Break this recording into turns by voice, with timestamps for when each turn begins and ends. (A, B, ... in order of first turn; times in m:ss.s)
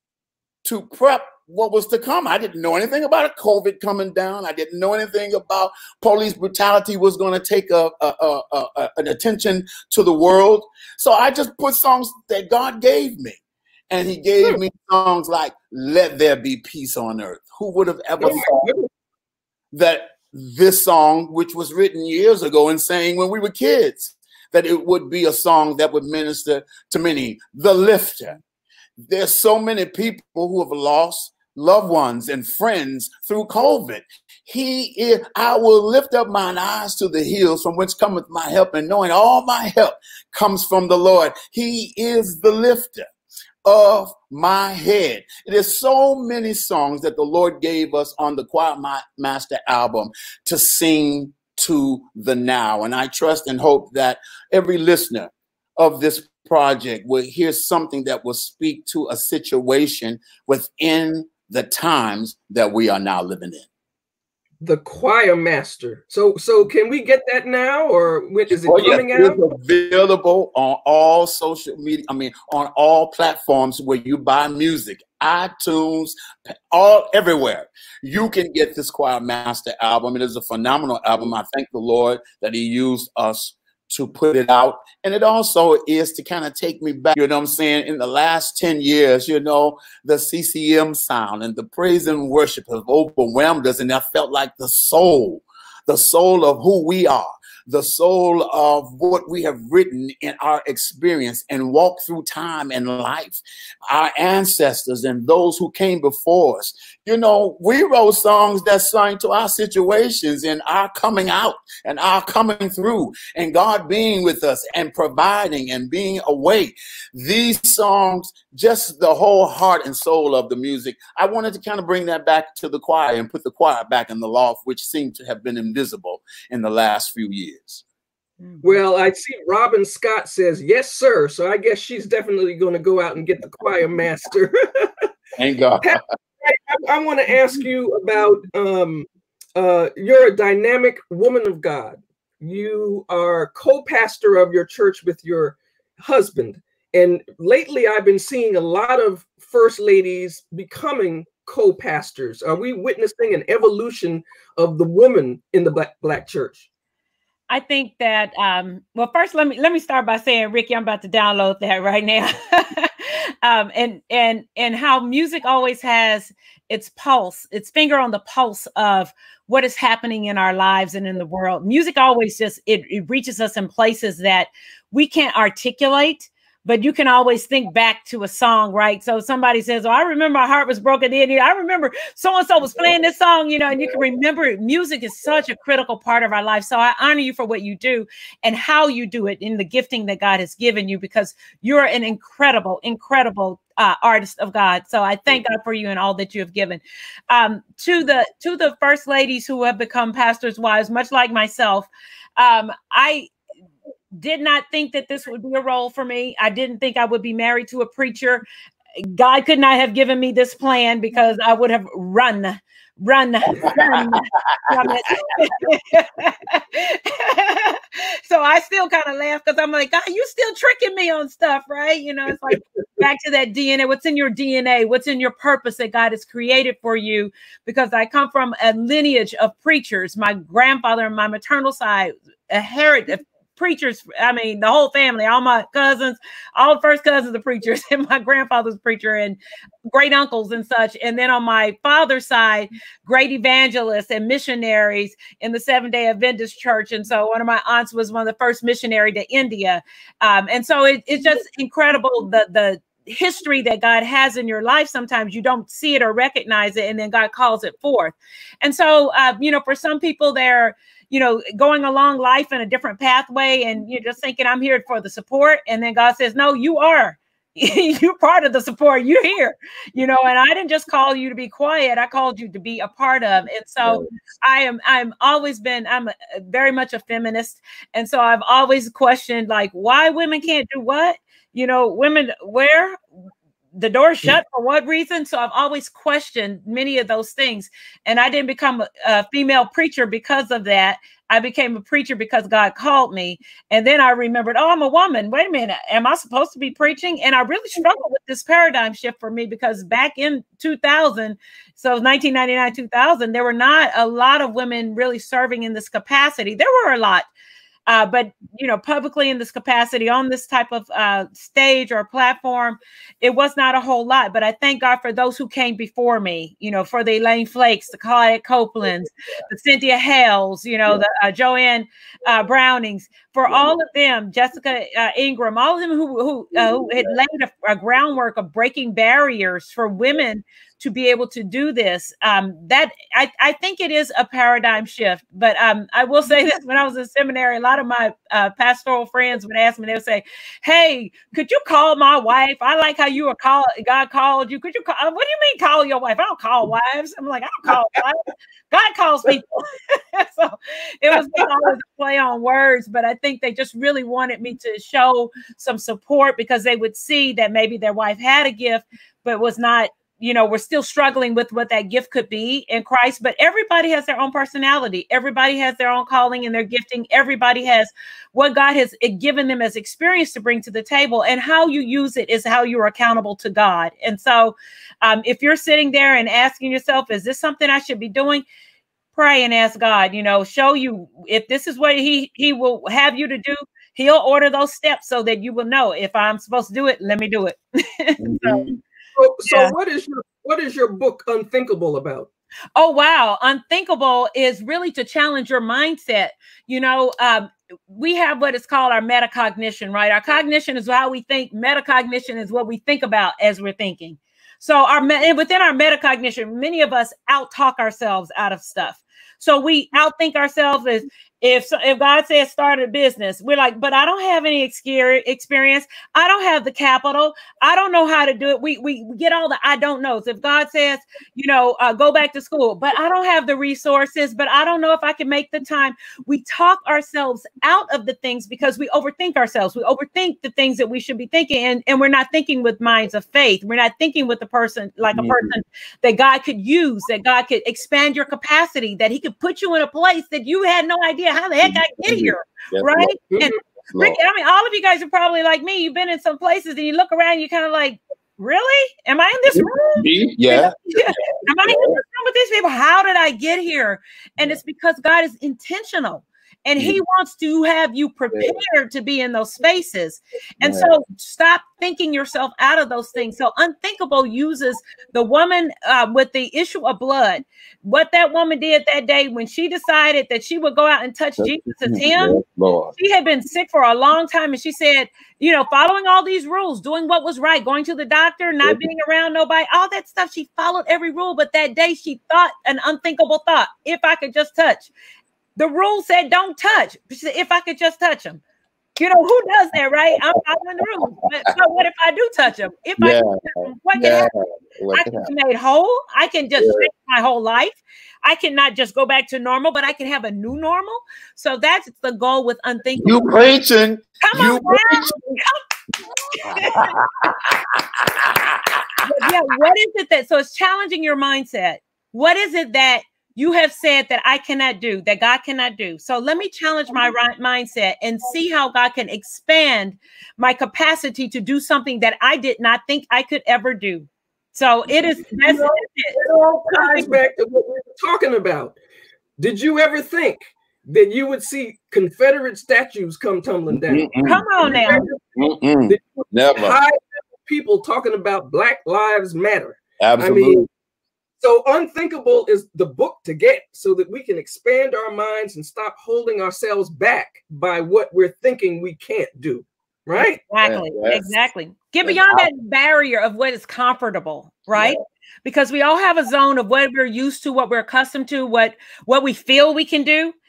0:00.6-0:18.7 A
0:18.2-0:18.9 B
0:19.7-0:28.4 A
0:29.0-0:43.1 A
0:43.6-1:03.7 A
1:04.6-1:09.4 B
1:08.6-1:16.1 A
1:16.7-2:07.8 A
2:08.6-2:15.1 B
2:15.4-2:16.0 A
2:15.8-2:36.7 B
2:37.5-3:23.3 C
3:03.8-3:04.0 A
3:24.2-3:28.4 C
3:29.0-3:59.4 C
3:33.6-3:35.0 A
3:59.9-4:43.0 C
4:33.8-4:34.1 A
4:43.8-5:07.3 C
5:07.9-6:18.4 C
5:23.5-5:23.8 A
5:26.6-5:27.1 A
6:19.1-6:28.7 C
6:28.2-6:28.8 A
6:29.2-6:32.3 B
6:29.5-6:29.7 C
6:32.8-7:52.4 C
7:15.1-7:15.5 A
7:21.6-7:23.1 A
7:23.9-7:24.2 A
7:29.5-7:31.1 A
7:31.6-7:32.0 A
7:38.3-7:38.6 A
7:40.6-7:40.9 A
7:51.4-7:52.9 A
7:53.0-8:04.9 C
8:05.6-8:08.4 C
8:09.0-8:14.3 C
8:10.2-8:10.8 A
8:13.0-8:15.3 A
8:14.9-8:23.2 C
8:16.6-8:16.8 A
8:23.0-8:25.4 A
8:24.2-8:25.6 C
8:26.3-8:26.9 C
8:26.3-8:29.0 A
8:29.0-8:46.2 C
8:45.4-8:48.8 B
8:46.7-8:47.2 C
8:49.4-8:55.2 B
8:53.7-8:56.8 A
8:54.2-8:55.1 C
8:55.9-9:00.6 B
9:00.0-9:00.7 A
9:01.4-9:10.4 B
9:10.2-9:20.3 C
9:10.6-9:11.4 A
9:12.0-9:12.5 A
9:14.7-9:15.0 A